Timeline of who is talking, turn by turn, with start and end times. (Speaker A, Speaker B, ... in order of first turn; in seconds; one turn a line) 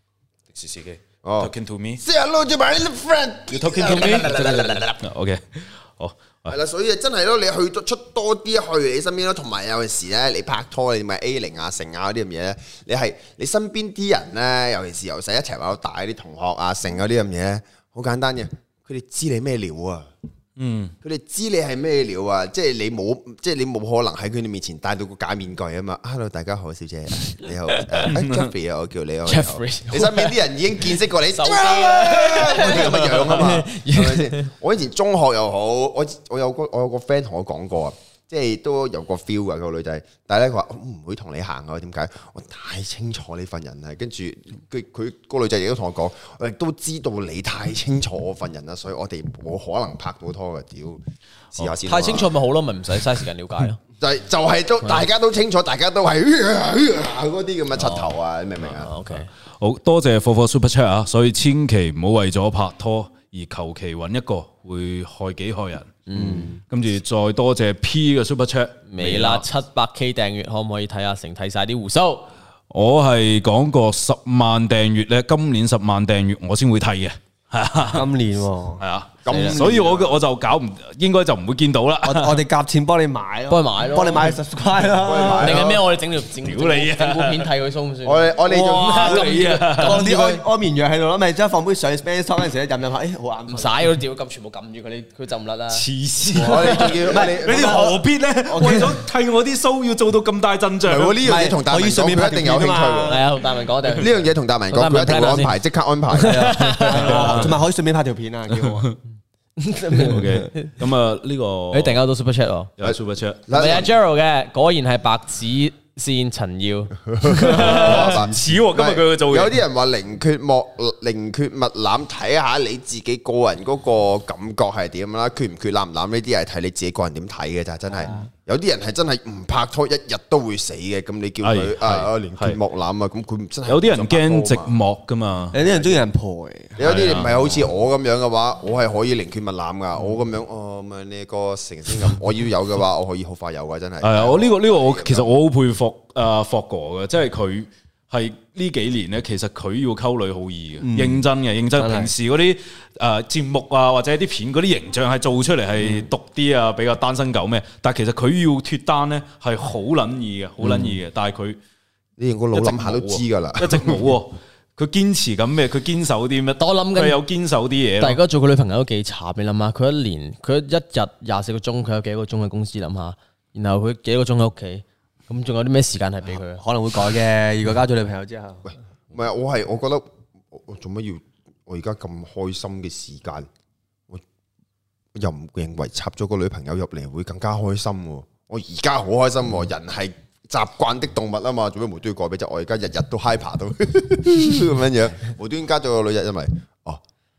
Speaker A: 0.5-2.0
Speaker B: 1.2-5.0
Speaker A: 3.5-6.5
Speaker B: 6.5-20.1
Speaker A: 20.6-20.9
Speaker B: 21.0-52.3
Speaker A: 28.1-28.5
Speaker C: 29.3-30.4
Speaker C: 31.3-34.5
Speaker C: 51.9-53.8
Speaker B: 54.0-58.9
Speaker C: 57.8-58.1
Speaker C: 58.8-59.3
Speaker A: 59.6-66.0
Speaker C: 66.1-66.5
Speaker D: 66.1-66.6
Speaker A: 66.7-69.5
Speaker C: 68.9-72.3
Speaker A: 72.7-78.1
Speaker D: 77.9-78.8
Speaker A: 78.8-82.4
Speaker B: 79.2-80.2
Speaker C: 79.3-79.6
Speaker D: 82.0-85.8
Speaker C: 83.5-84.3
Speaker B: 85.0-85.8
Speaker C: 85.3-90.4
Speaker A: 86.4-87.5
Speaker B: 88.0-89.3
Speaker D: 88.5-93.9
Speaker A: 88.6-90.2
Speaker C: 93.5-95.8
Speaker A: 95.7-101.2
Speaker B: 96.3-97.8
Speaker D: 96.8-99.0
Speaker B: 100.9-103.2
Speaker D: 101.2-103.3
Speaker C: 103.1-105.6
Speaker B: 103.9-106.6
Speaker C: 106.2-107.3
Speaker D: 106.2-108.9
Speaker A: 107.1-107.6
Speaker A: 108.5-108.9
Speaker C: 109.6-110.7
Speaker D: 109.9-110.2
Speaker A: 110.1-112.0
Speaker C: 111.7-112.7
Speaker A: 112.8-113.4
Speaker B: 112.8-113.9
Speaker C: 113.5-118.1
Speaker B: 117.2-134.8
Speaker A: 117.5-119.6
Speaker D: 128.0-128.3
Speaker A: 131.4-132.6
Speaker A: 133.7-135.6
Speaker D: 135.5-136.8
Speaker B: 136.8-145.3
Speaker A: 136.8-137.4
Speaker A: 144.0-161.6
Speaker D: 150.8-152.1
Speaker B: 162.2-164.1
Speaker A: 162.5-168.2
Speaker C: 166.6-167.2
Speaker C: 168.0-176.6
Speaker D: 176.5-178.6
Speaker B: 178.7-183.5
Speaker B: 185.2-197.0